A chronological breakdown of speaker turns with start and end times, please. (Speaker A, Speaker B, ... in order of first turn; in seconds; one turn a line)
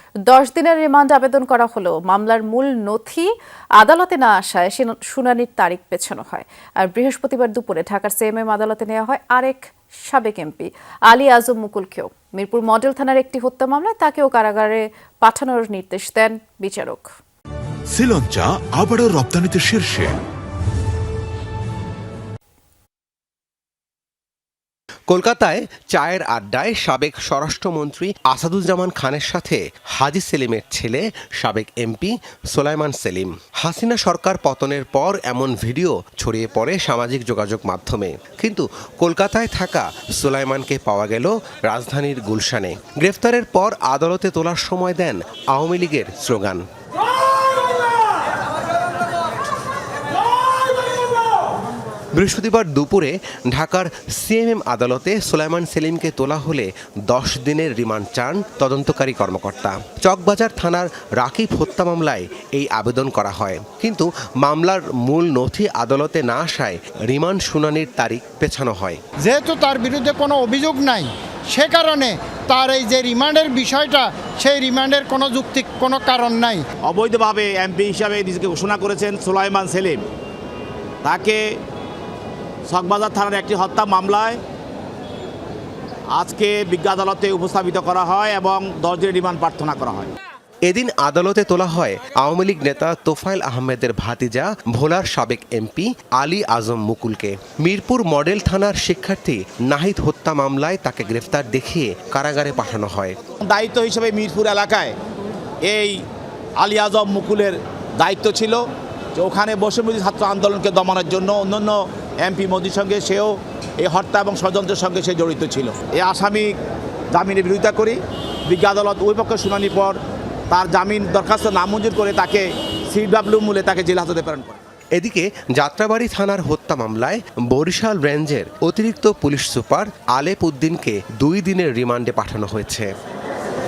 Speaker A: 0.2-17.1
Speaker B: 17.9-20.2
Speaker C: 25.1-46.6
Speaker C: 52.1-69.0
Speaker D: 69.2-76.6
Speaker E: 76.8-80.1
Speaker E: 81.0-81.6
Speaker E: 82.7-84.4
Speaker E: 86.1-90.1
Speaker C: 90.7-103.2
Speaker E: 103.4-105.0
Speaker E: 105.6-106.0
Speaker E: 106.6-108.6
Speaker E: 109.2-116.6
Speaker E: 117.1-120.0
Speaker E: 120.5-124.6
Speaker C: 125.0-132.9